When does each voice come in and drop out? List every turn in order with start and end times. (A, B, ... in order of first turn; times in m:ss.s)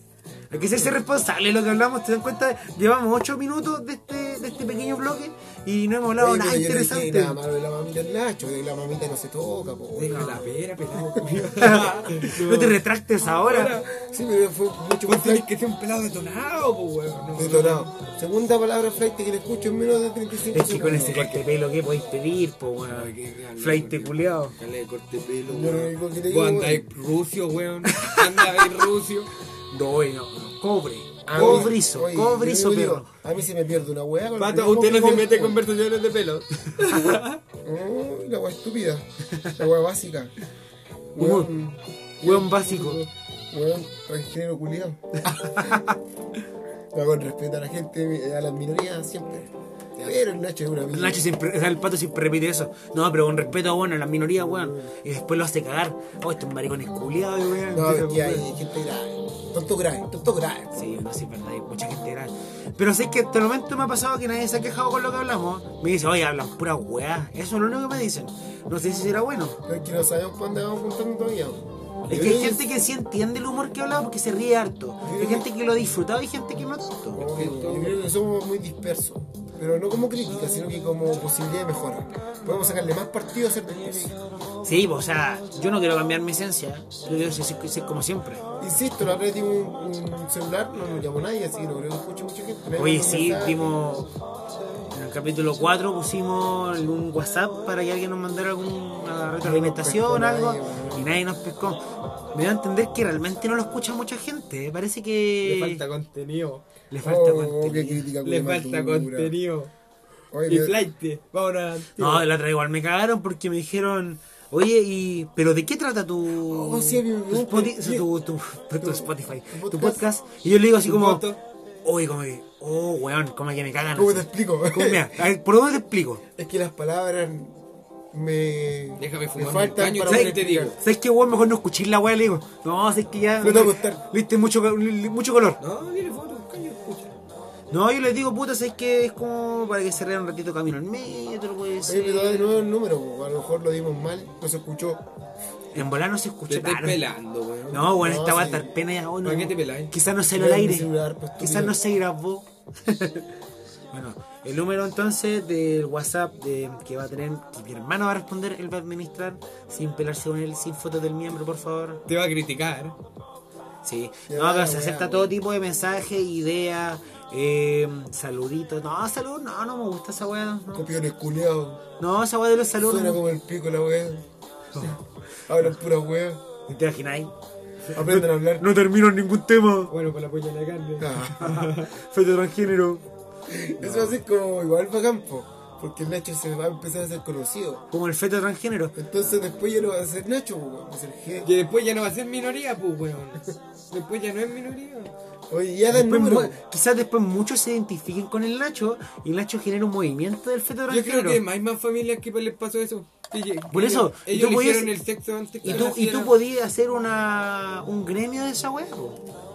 0:00.5-0:07.4 A
0:06.2-0:10.4 B
0:10.0-0:12.8 C
0:10.0-0:10.4 A
0:11.0-0:11.3 B
0:11.6-0:13.8 A
0:13.4-0:13.9 C
0:13.9-0:15.5 B
0:15.1-0:17.9 C
0:17.4-0:21.3 B
0:20.5-0:24.6 A
0:20.9-0:21.4 C
0:22.8-0:29.3 C
0:25.5-0:26.9 B
0:27.9-0:28.7 A
0:29.7-0:33.1 A
0:31.3-0:35.6 B
0:31.4-0:31.7 C
0:34.4-0:37.4 C
0:37.6-0:39.0 B
0:39.6-0:40.3 B
0:41.2-0:45.8 B
0:41.2-0:41.5 A
0:42.2-0:43.0 A
0:45.2-0:46.0 A
0:46.9-0:51.2 B
0:50.9-0:58.5 A
0:57.7-1:00.8 B
1:00.7-1:09.6 A
1:09.7-1:12.7 B
1:12.1-1:17.2 A
1:15.0-1:15.5 B
1:17.1-1:24.2 B
1:17.2-1:18.0 C
1:24.6-1:28.4 A
1:28.6-1:33.6 B
1:32.8-1:34.1 A
1:34.9-1:41.8 A
1:39.4-1:41.1 B
1:42.3-1:45.8 A
1:45.4-1:46.6 C
1:46.9-1:48.1 A
1:47.0-1:49.4 B
1:48.2-1:49.7 C
1:50.3-1:50.8 B
1:50.4-1:52.0 C
1:52.0-2:01.2 A
1:52.0-1:52.2 B
1:56.4-1:58.1 B
1:58.8-2:00.0 B
2:00.8-2:01.4 C
2:01.8-2:06.2 A
2:04.0-2:05.2 B
2:06.4-2:10.8 B
2:09.0-2:10.8 C
2:10.0-2:15.6 A
2:13.4-2:14.0 B
2:15.6-2:17.1 C
2:17.7-2:22.5 A
2:21.9-2:25.0 B
2:25.7-2:27.0 A
2:26.5-2:28.0 C
2:27.7-2:33.3 A
2:27.8-2:28.7 B
2:29.2-2:29.9 C
2:30.3-2:31.8 B
2:33.9-2:42.0 A
2:42.1-2:43.0 C
2:43.8-2:50.9 A
2:44.3-2:45.4 B
2:50.7-2:51.8 B
2:52.0-2:53.2 A
2:52.8-2:54.2 B
2:54.7-2:55.0 A
2:55.5-2:56.4 B
2:56.7-2:57.3 A
2:57.9-2:58.7 B
2:57.9-2:59.9 A
2:59.9-3:01.9 C
3:01.0-3:01.6 B
3:01.4-3:03.0 A
3:03.5-3:07.9 B
3:03.8-3:04.2 A
3:07.9-3:09.0 A
3:09.0-3:11.5 B
3:11.4-3:15.1 C
3:15.5-3:16.6 B
3:15.9-3:21.4 A
3:20.9-3:26.4 C
3:23.7-3:24.9 A
3:25.6-3:29.2 A
3:25.6-3:25.9 B